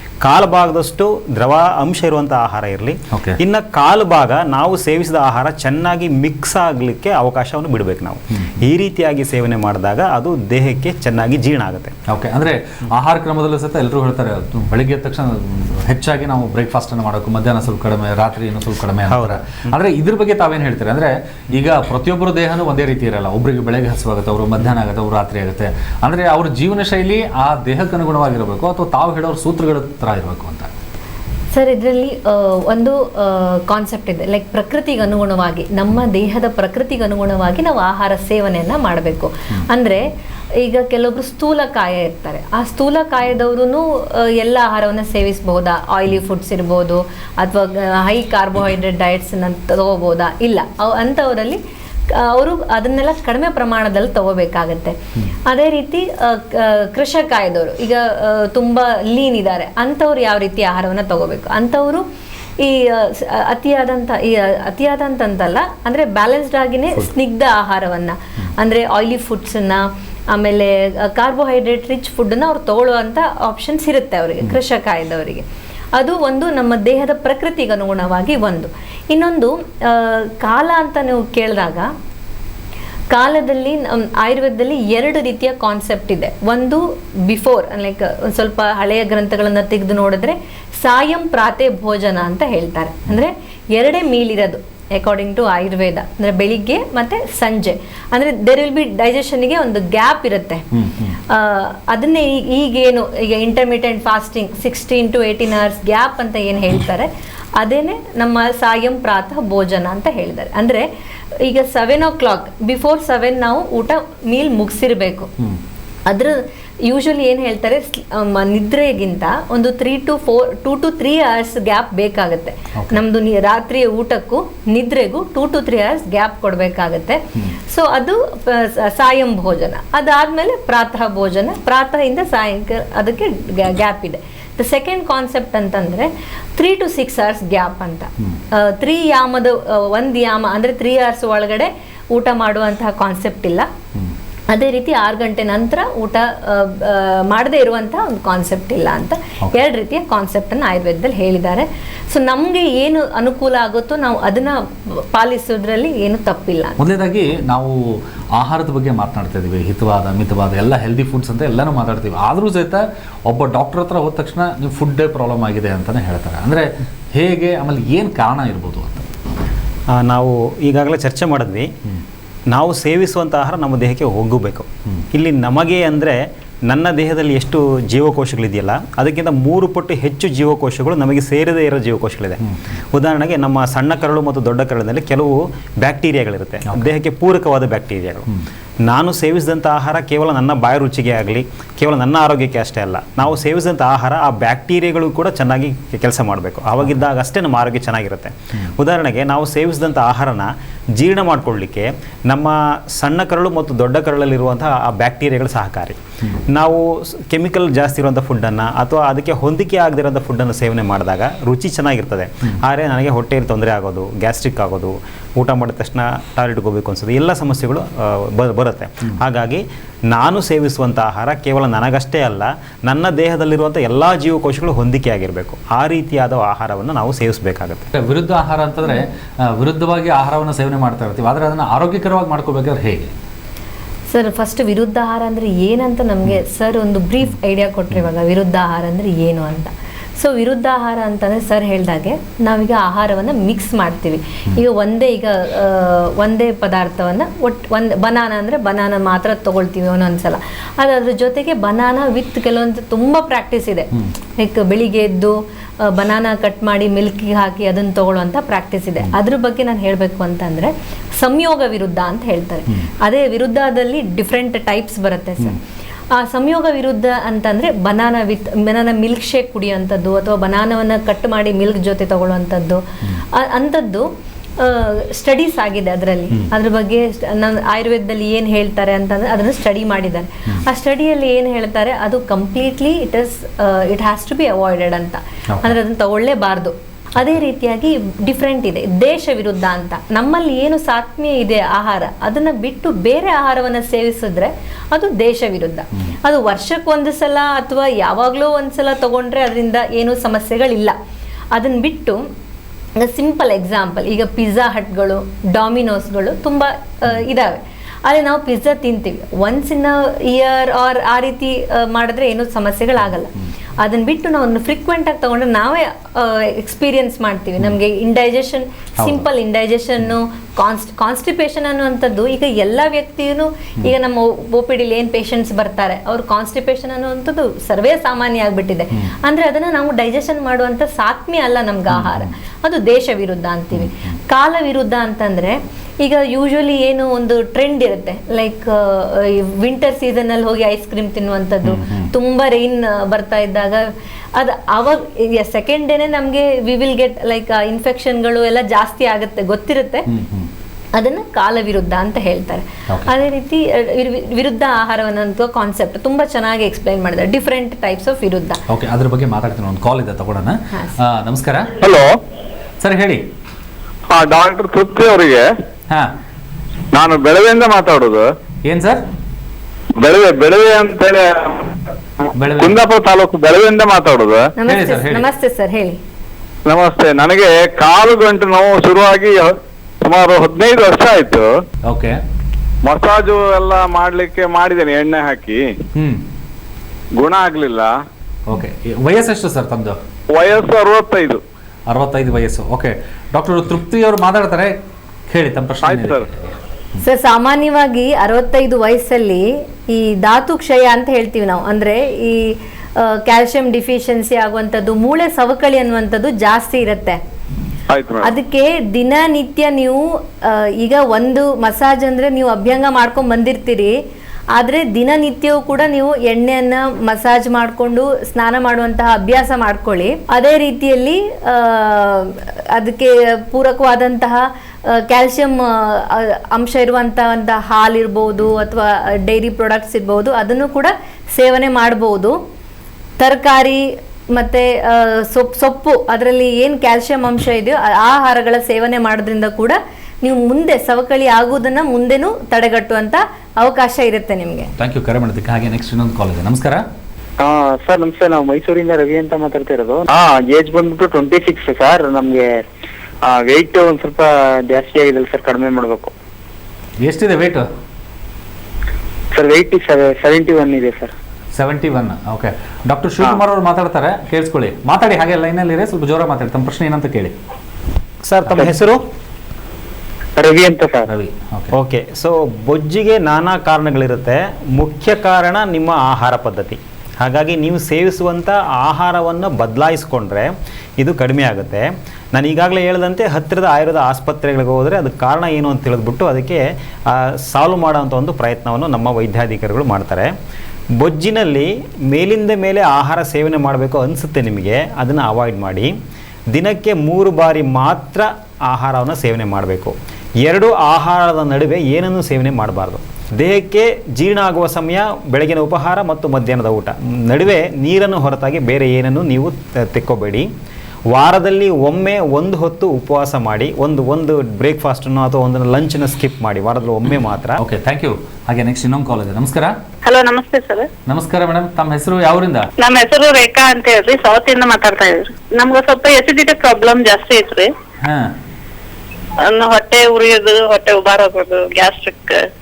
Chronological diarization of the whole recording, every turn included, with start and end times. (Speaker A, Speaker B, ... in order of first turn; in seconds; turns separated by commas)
Speaker A: 0.2-11.9, Speaker B: 3.1-3.4, Speaker B: 8.3-8.6, Speaker B: 12.1-30.7, Speaker A: 19.1-19.4, Speaker C: 31.5-62.0, Speaker C: 62.6-81.9, Speaker C: 83.1-100.6, Speaker B: 100.7-101.2, Speaker C: 101.3-110.9, Speaker C: 111.4-115.3, Speaker C: 116.1-143.7, Speaker B: 122.8-123.0, Speaker C: 144.5-154.6, Speaker C: 155.1-156.8, Speaker B: 156.8-169.1, Speaker A: 169.9-171.7, Speaker A: 172.5-182.4, Speaker B: 182.4-182.7, Speaker A: 182.9-188.3, Speaker A: 188.8-227.9, Speaker B: 227.9-233.1, Speaker C: 234.1-265.6, Speaker C: 266.1-300.9, Speaker C: 301.5-302.2, Speaker C: 303.0-350.1, Speaker B: 331.9-332.3, Speaker B: 333.7-334.1, Speaker B: 341.6-342.1, Speaker B: 350.1-350.5, Speaker C: 350.9-358.6, Speaker B: 358.7-361.7, Speaker D: 361.8-362.1, Speaker B: 362.8-363.2, Speaker D: 364.1-365.5, Speaker D: 366.9-368.3, Speaker B: 368.6-369.0, Speaker D: 370.0-371.8, Speaker B: 372.3-372.8, Speaker D: 372.6-374.5, Speaker C: 374.6-376.0, Speaker B: 374.6-375.3, Speaker D: 376.7-381.5, Speaker B: 381.9-382.2, Speaker D: 382.8-385.7, Speaker B: 385.9-386.2, Speaker D: 387.2-387.9, Speaker B: 388.5-390.0, Speaker D: 390.3-391.4, Speaker B: 391.9-394.8, Speaker B: 395.3-397.0, Speaker D: 395.8-396.2, Speaker C: 397.0-407.2, Speaker D: 407.9-408.3, Speaker C: 408.2-413.9, Speaker C: 414.5-432.4, Speaker C: 433.2-444.7, Speaker B: 444.8-446.8, Speaker E: 447.4-452.6, Speaker E: 453.2-456.1, Speaker B: 457.0-457.7, Speaker E: 459.3-461.1, Speaker B: 461.5-467.3, Speaker A: 468.2-469.0, Speaker E: 470.4-471.1, Speaker B: 471.1-471.7, Speaker A: 471.7-490.3, Speaker A: 491.0-495.9, Speaker A: 496.5-510.5, Speaker A: 511.1-517.6, Speaker B: 517.6-519.8, Speaker F: 520.0-520.9, Speaker B: 521.0-522.7, Speaker F: 522.8-527.7, Speaker B: 528.0-528.3, Speaker F: 529.4-532.5